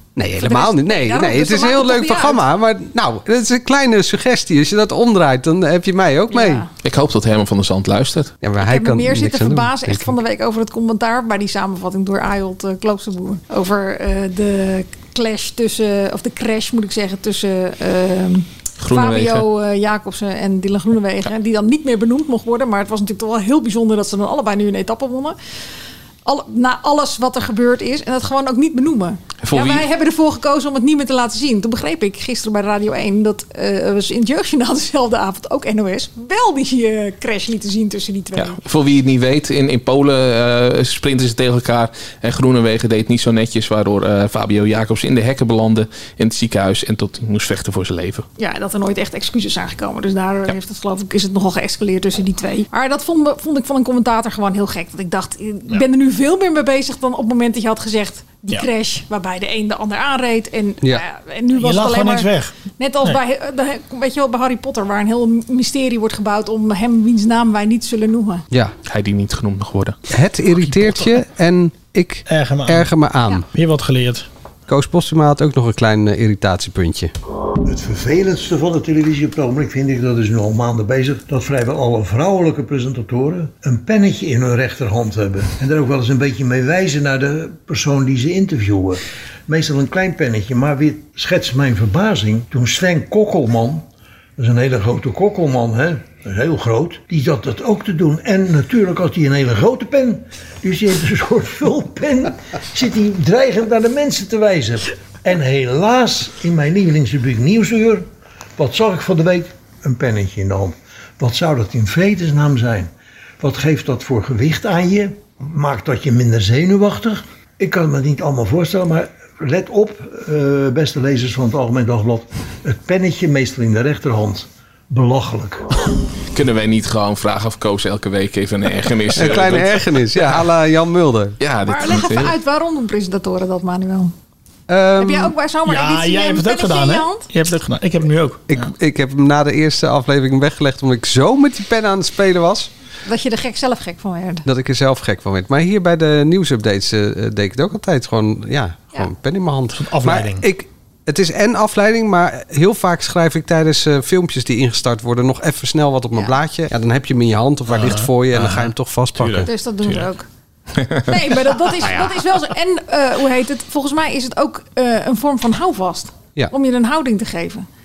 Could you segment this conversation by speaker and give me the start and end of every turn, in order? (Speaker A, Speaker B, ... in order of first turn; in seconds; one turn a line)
Speaker A: 0.2-6.7
Speaker B: 0.4-2.4
Speaker B: 6.3-6.7
Speaker C: 6.8-8.3
Speaker A: 8.4-10.2
Speaker B: 8.6-25.4
Speaker C: 18.8-19.5
Speaker B: 26.2-38.6
Speaker C: 29.4-29.9
Speaker C: 38.4-48.3
Speaker B: 48.4-68.5
Speaker D: 61.5-63.2
Speaker C: 68.9-70.0
Speaker A: 70.1-73.5
Speaker D: 70.5-71.1
Speaker D: 72.3-72.9
Speaker D: 73.5-74.3
Speaker A: 74.7-77.1
Speaker E: 77.7-93.8
Speaker E: 94.4-125.7
Speaker C: 126.3-129.7
Speaker A: 129.2-131.4
Speaker C: 131.4-132.3
Speaker B: 131.7-134.1
Speaker A: 134.7-135.3
Speaker B: 135.0-137.3
Speaker D: 135.7-138.7
Speaker A: 138.5-142.7
Speaker B: 143.1-144.4
Speaker A: 144.5-159.5
Speaker D: 149.7-150.5
Speaker D: 157.7-159.5
Speaker B: 159.4-160.3
Speaker C: 160.8-161.1
Speaker B: 161.1-167.7